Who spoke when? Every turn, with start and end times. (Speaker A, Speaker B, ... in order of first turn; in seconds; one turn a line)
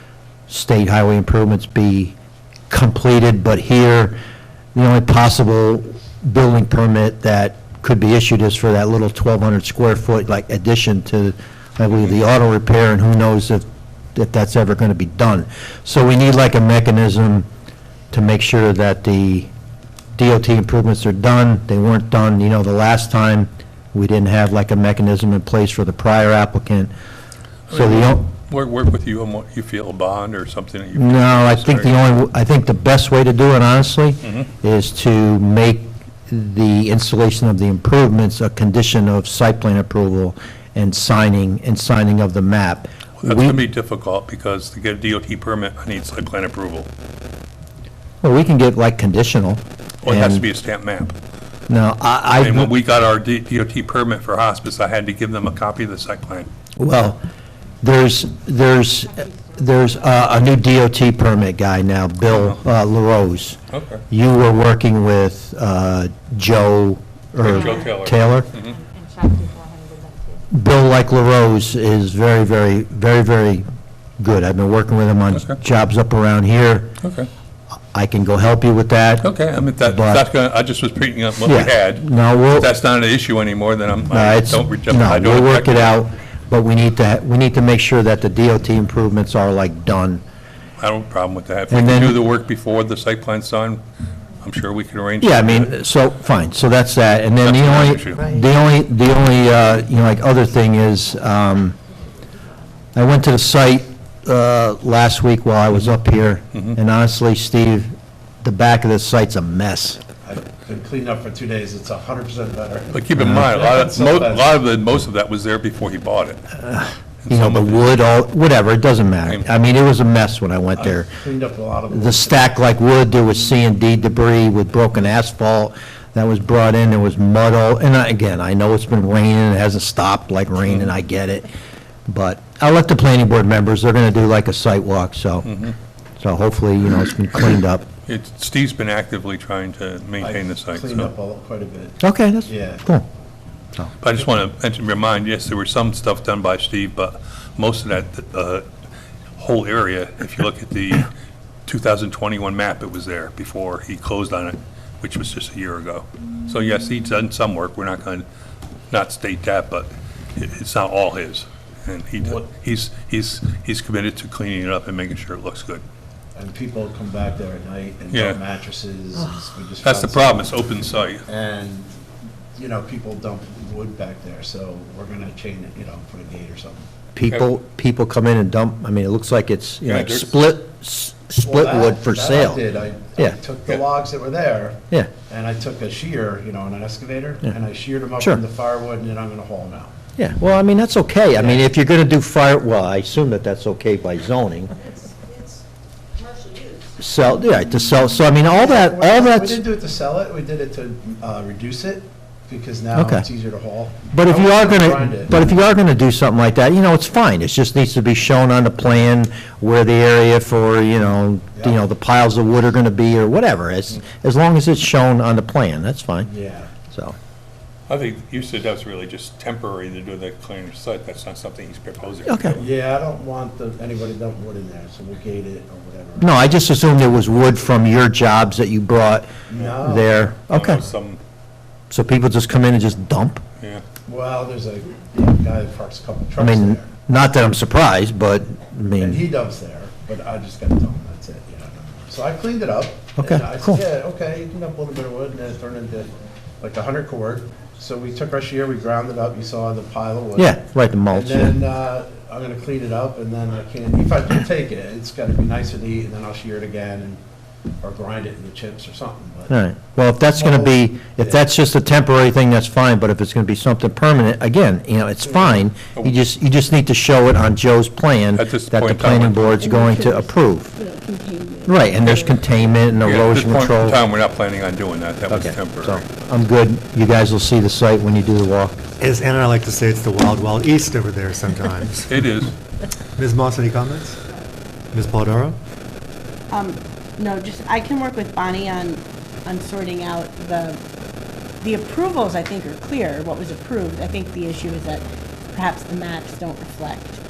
Speaker A: 0.5-2.1
Speaker A: 2.7-4.2
Speaker A: 4.8-17.5
Speaker A: 18.1-19.5
Speaker A: 20.2-26.9
Speaker B: 27.7-32.1
Speaker A: 27.7-28.3
Speaker A: 31.0-43.6
Speaker B: 34.2-34.5
Speaker B: 43.2-46.9
Speaker A: 48.2-50.5
Speaker B: 50.0-51.1
Speaker A: 51.7-52.7
Speaker B: 52.4-56.5
Speaker A: 56.8-57.2
Speaker A: 57.8-63.6
Speaker C: 59.1-60.6
Speaker B: 62.3-62.6
Speaker B: 63.7-64.0
Speaker A: 64.1-68.5
Speaker B: 67.4-68.8
Speaker C: 67.4-70.5
Speaker A: 70.5-73.6
Speaker A: 74.2-76.9
Speaker B: 75.3-75.6
Speaker B: 77.0-77.3
Speaker A: 77.9-79.3
Speaker B: 79.2-86.0
Speaker A: 79.8-80.2
Speaker A: 81.4-82.7
Speaker A: 84.1-90.2
Speaker B: 90.8-93.8
Speaker A: 91.7-92.2
Speaker B: 94.4-95.7
Speaker A: 95.2-101.8
Speaker B: 97.4-98.2
Speaker A: 102.9-110.0
Speaker D: 110.2-114.5
Speaker B: 112.9-116.4
Speaker A: 116.5-121.1
Speaker B: 117.2-118.0
Speaker D: 120.8-122.5
Speaker A: 121.9-131.5
Speaker A: 132.1-135.5
Speaker B: 135.4-135.8
Speaker A: 136.2-137.9
Speaker B: 138.1-141.1
Speaker D: 140.2-142.8
Speaker A: 142.0-143.1
Speaker B: 144.0-148.7
Speaker B: 149.3-151.1
Speaker B: 151.7-158.2
Speaker B: 158.9-165.8
Speaker D: 166.3-170.6
Speaker B: 168.1-168.4
Speaker B: 169.8-171.2
Speaker D: 171.2-171.9
Speaker D: 172.5-176.8
Speaker A: 177.2-182.6
Speaker B: 179.8-180.4
Speaker D: 181.4-189.9
Speaker A: 190.2-194.7
Speaker D: 191.3-191.7
Speaker A: 197.0-199.6
Speaker D: 198.4-205.5
Speaker A: 202.9-203.2
Speaker A: 204.1-216.3
Speaker D: 216.2-216.7
Speaker A: 216.9-217.2
Speaker B: 217.9-222.7
Speaker A: 222.2-222.6
Speaker D: 222.6-226.4
Speaker A: 226.2-230.8
Speaker D: 229.5-230.1
Speaker B: 230.5-231.2
Speaker A: 231.9-233.4
Speaker D: 234.1-236.9
Speaker A: 236.4-239.2
Speaker D: 239.0-250.6
Speaker A: 243.2-243.8
Speaker A: 250.3-251.5
Speaker D: 251.1-257.2
Speaker D: 257.8-259.5
Speaker A: 259.5-270.7
Speaker D: 260.3-261.4
Speaker B: 268.3-269.6
Speaker E: 269.6-272.4
Speaker A: 271.6-274.0
Speaker B: 273.0-276.0
Speaker A: 275.3-278.8
Speaker F: 279.0-282.3
Speaker B: 282.1-282.5
Speaker F: 283.2-284.2
Speaker F: 284.9-285.6
Speaker E: 286.5-290.8
Speaker E: 291.6-297.2